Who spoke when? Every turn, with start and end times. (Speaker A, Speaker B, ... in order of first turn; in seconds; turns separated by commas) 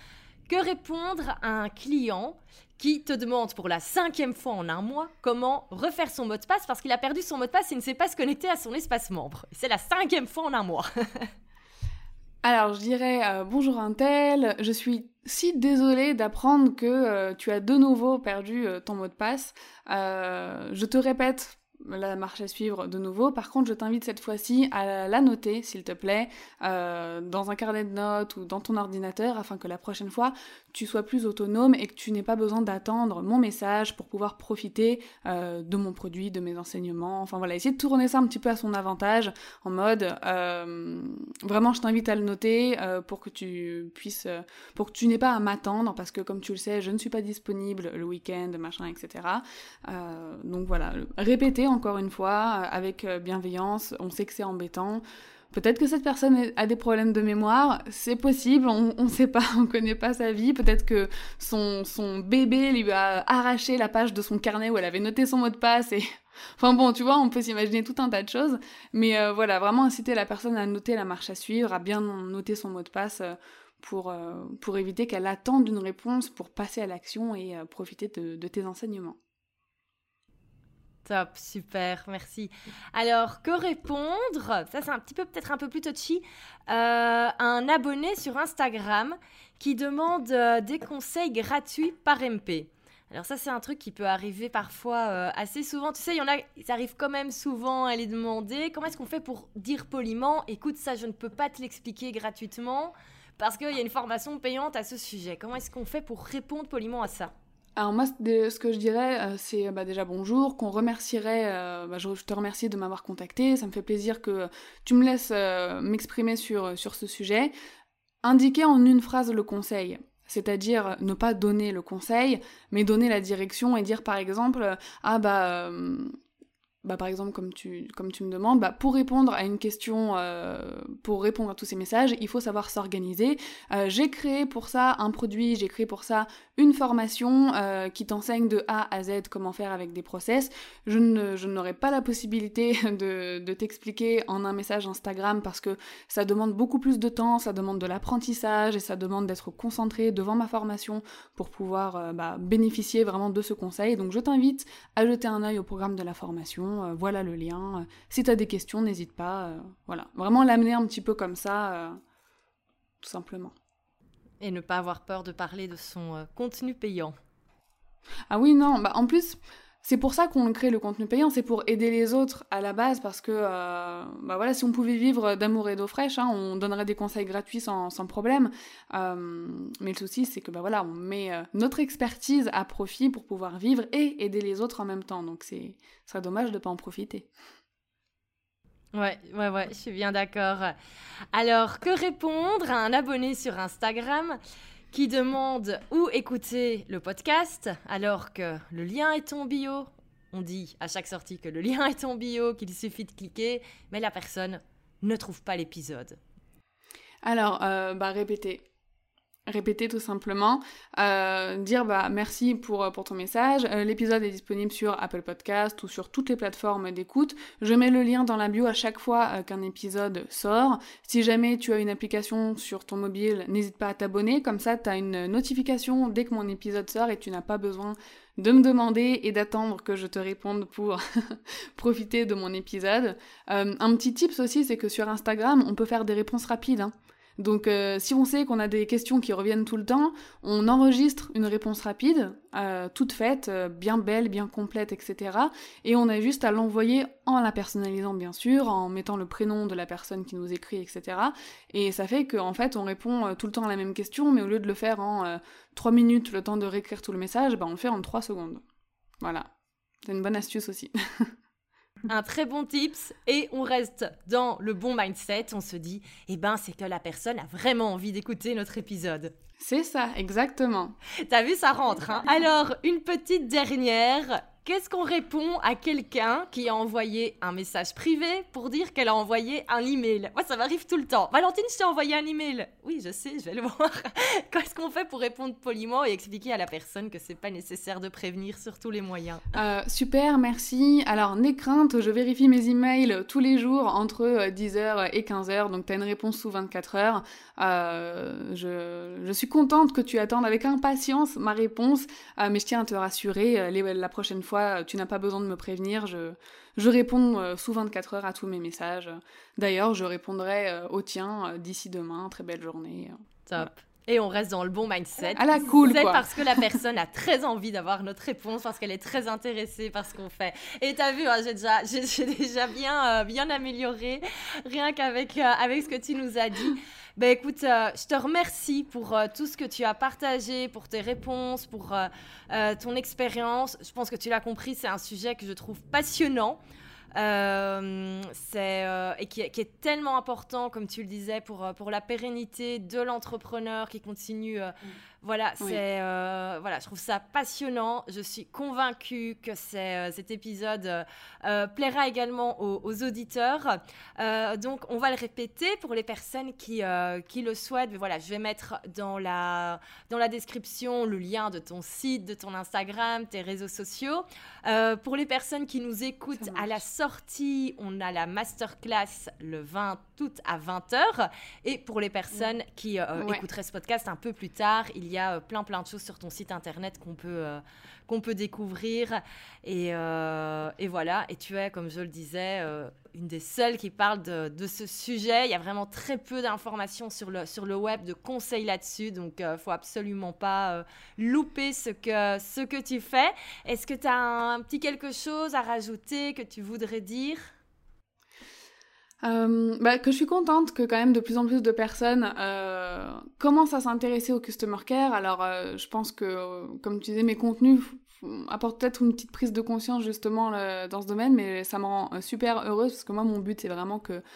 Speaker A: 0.5-11.3, Speaker B: 12.4-66.0, Speaker B: 66.6-79.2, Speaker A: 81.0-107.3, Speaker B: 107.8-117.5, Speaker B: 118.2-126.1, Speaker B: 126.8-162.0, Speaker B: 163.0-163.5, Speaker A: 164.4-167.2, Speaker B: 168.3-187.3, Speaker A: 188.9-190.7, Speaker A: 191.3-194.4, Speaker A: 194.9-206.2, Speaker B: 207.2-208.6, Speaker B: 209.5-258.6, Speaker B: 259.2-259.5, Speaker B: 260.0-261.3, Speaker A: 262.1-269.3, Speaker B: 269.6-270.9, Speaker A: 271.2-289.5, Speaker B: 289.5-313.6, Speaker A: 313.5-336.6, Speaker B: 315.3-316.8, Speaker A: 337.1-397.5, Speaker B: 366.4-366.8, Speaker B: 373.2-373.4, Speaker B: 399.2-414.2